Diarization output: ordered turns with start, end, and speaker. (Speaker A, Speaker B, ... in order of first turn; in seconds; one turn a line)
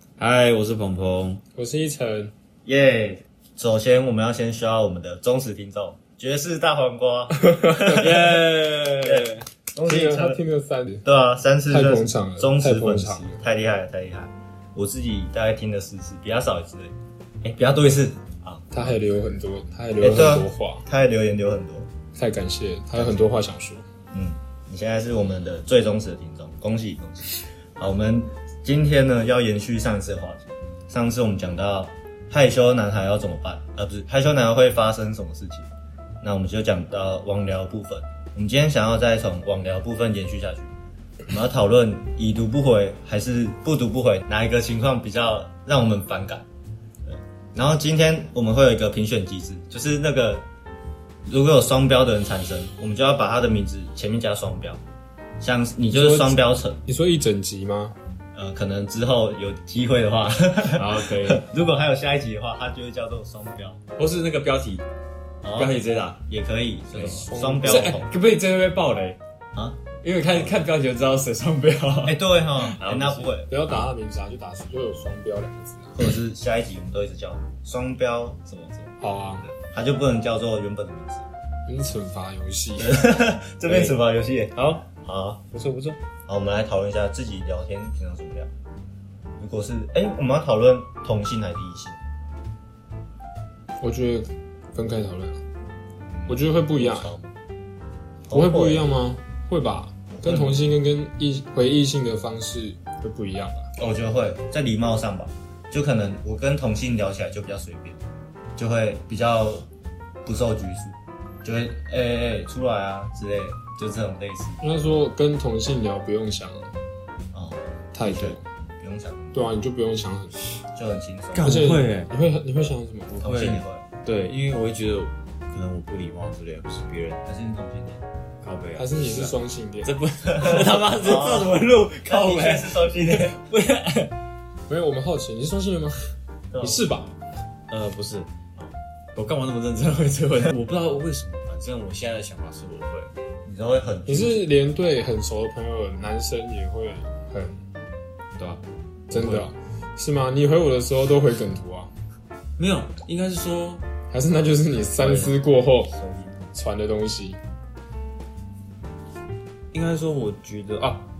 Speaker A: 0.2-1.4
Speaker B: 1.6-2.3
Speaker C: 2.6-8.4
Speaker B: 7.5-8.0
Speaker A: 7.9-9.5
Speaker C: 9.0-10.4
Speaker B: 9.8-11.0
Speaker C: 11.0-18.9
Speaker B: 11.7-13.3
Speaker B: 18.7-20.8
Speaker C: 20.0-21.9
Speaker B: 22.1-23.8
Speaker C: 22.9-23.3
Speaker C: 24.1-35.7
Speaker C: 36.2-40.7
Speaker C: 41.3-46.5
Speaker C: 47.0-50.4
Speaker C: 51.2-54.8
Speaker C: 55.4-56.8
Speaker B: 55.9-57.9
Speaker C: 58.3-63.8
Speaker A: 60.7-61.4
Speaker A: 64.0-64.8
Speaker C: 65.4-68.1
Speaker A: 65.5-66.2
Speaker A: 67.0-69.2
Speaker B: 67.0-68.0
Speaker C: 69.5-69.8
Speaker A: 70.0-73.8
Speaker C: 72.0-73.7
Speaker B: 73.5-76.1
Speaker C: 76.0-81.3
Speaker B: 79.0-79.5
Speaker B: 81.7-83.1
Speaker C: 82.8-85.4
Speaker A: 83.7-83.9
Speaker A: 84.5-84.9
Speaker A: 85.5-86.0
Speaker C: 86.3-88.5
Speaker C: 89.4-92.0
Speaker B: 93.8-95.4
Speaker C: 96.0-97.3
Speaker B: 96.3-97.1
Speaker C: 98.3-99.0
Speaker B: 98.3-103.7
Speaker C: 100.1-100.6
Speaker C: 103.8-108.0
Speaker C: 108.6-109.7
Speaker C: 110.2-114.6
Speaker B: 114.6-116.7
Speaker C: 117.3-119.5
Speaker B: 117.9-118.4
Speaker B: 119.3-120.6
Speaker C: 120.7-121.7
Speaker A: 121.3-122.1
Speaker B: 121.4-123.2
Speaker C: 123.2-123.8
Speaker A: 123.2-127.2
Speaker C: 127.2-128.0
Speaker A: 128.4-134.1
Speaker B: 128.8-129.9
Speaker C: 130.3-131.5
Speaker C: 132.1-133.4
Speaker B: 134.7-137.1
Speaker C: 136.5-136.8
Speaker A: 137.7-138.3
Speaker A: 139.1-143.1
Speaker C: 143.4-144.4
Speaker B: 144.1-147.6
Speaker A: 148.4-149.5
Speaker B: 149.1-151.9
Speaker A: 152.6-153.8
Speaker B: 154.1-155.9
Speaker C: 155.0-155.4
Speaker C: 155.9-156.5
Speaker B: 156.5-157.4
Speaker A: 159.7-161.1